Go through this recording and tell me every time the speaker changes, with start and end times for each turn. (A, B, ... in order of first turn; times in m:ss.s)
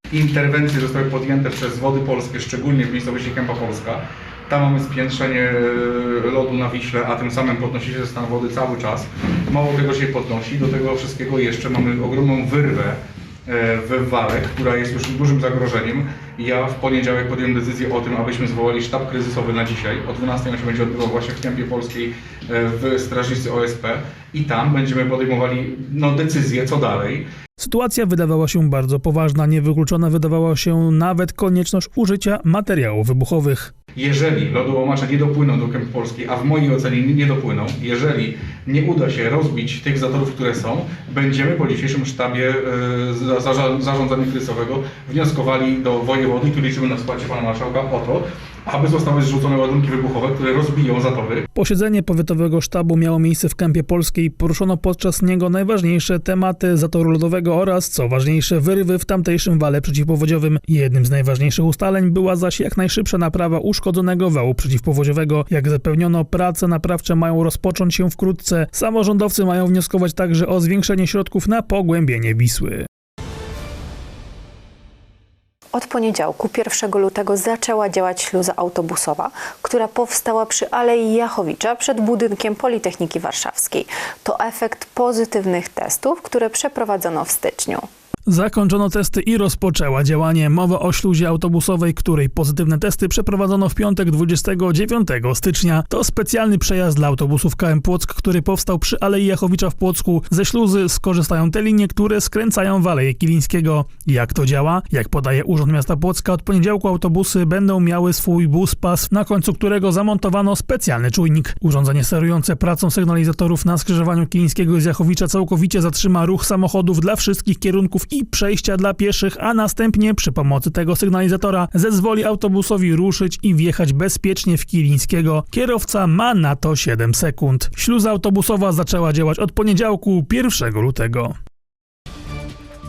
0:00.1-0:27.2 A
0:27.6-0:33.7 B
0:34.0-0:51.4 A
0:51.6-1:12.9 B
1:15.7-1:27.9 C
1:28.3-2:11.4 B